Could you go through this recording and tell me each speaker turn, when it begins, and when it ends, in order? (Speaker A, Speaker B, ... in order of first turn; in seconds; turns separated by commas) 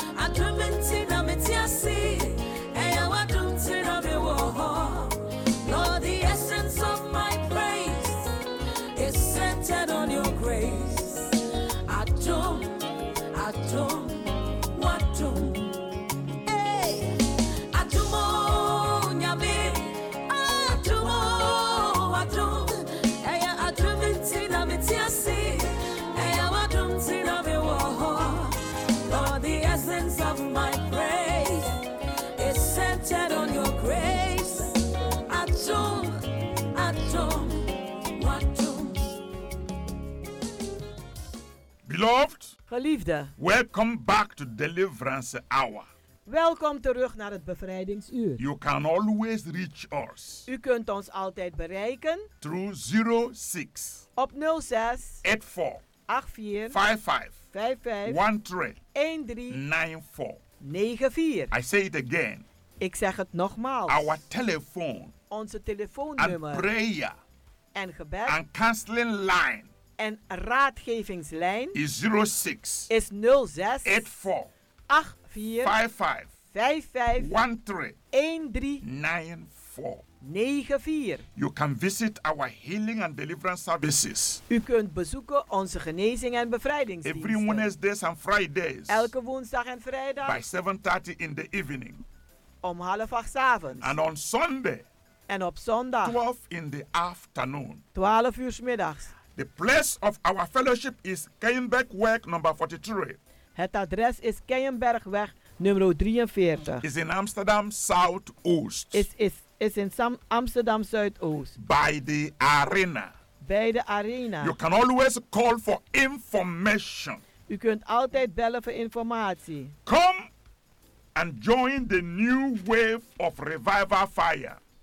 Speaker A: 0.2-8.3, Speaker A: 9.0-15.8, Speaker A: 16.4-31.8, Speaker A: 32.4-34.8, Speaker A: 35.3-39.2, Speaker B: 41.9-42.6, Speaker C: 42.7-43.3, Speaker B: 43.4-45.9, Speaker C: 46.3-48.4, Speaker B: 48.4-50.5, Speaker C: 50.5-52.3, Speaker B: 52.4-54.0, Speaker C: 54.2-55.2, Speaker B: 55.2-55.8, Speaker C: 56.1-56.8, Speaker B: 56.7-57.4, Speaker C: 57.5-58.2, Speaker B: 58.0-58.8, Speaker C: 58.9-59.6, Speaker B: 59.5-60.4, Speaker C: 60.6-61.5, Speaker B: 61.5-62.5, Speaker C: 62.8-64.2, Speaker B: 63.9-65.1, Speaker C: 65.3-66.7, Speaker B: 66.2-67.2, Speaker C: 67.8-68.4, Speaker B: 68.3-69.7, Speaker C: 70.0-71.8, Speaker B: 71.7-72.9, Speaker C: 72.9-74.1, Speaker B: 73.8-74.5, Speaker C: 74.9-75.8, Speaker B: 75.6-76.3, Speaker C: 76.5-77.3, Speaker B: 77.2-78.0, Speaker C: 78.1-78.8, Speaker B: 78.8-80.0, Speaker C: 80.2-81.2, Speaker B: 81.4-84.4, Speaker C: 84.5-87.7, Speaker B: 87.0-89.1, Speaker C: 88.9-90.4, Speaker B: 90.2-92.0, Speaker C: 92.6-94.0, Speaker B: 93.8-94.8, Speaker C: 95.3-96.2, Speaker B: 96.0-97.8, Speaker C: 98.0-99.1, Speaker B: 99.4-103.2, Speaker C: 103.6-106.8, Speaker B: 106.8-109.1, Speaker C: 108.9-111.6, Speaker B: 111.6-113.1, Speaker C: 113.4-114.5, Speaker B: 114.4-117.2, Speaker C: 117.5-119.7, Speaker B: 119.9-120.3, Speaker B: 121.2-124.6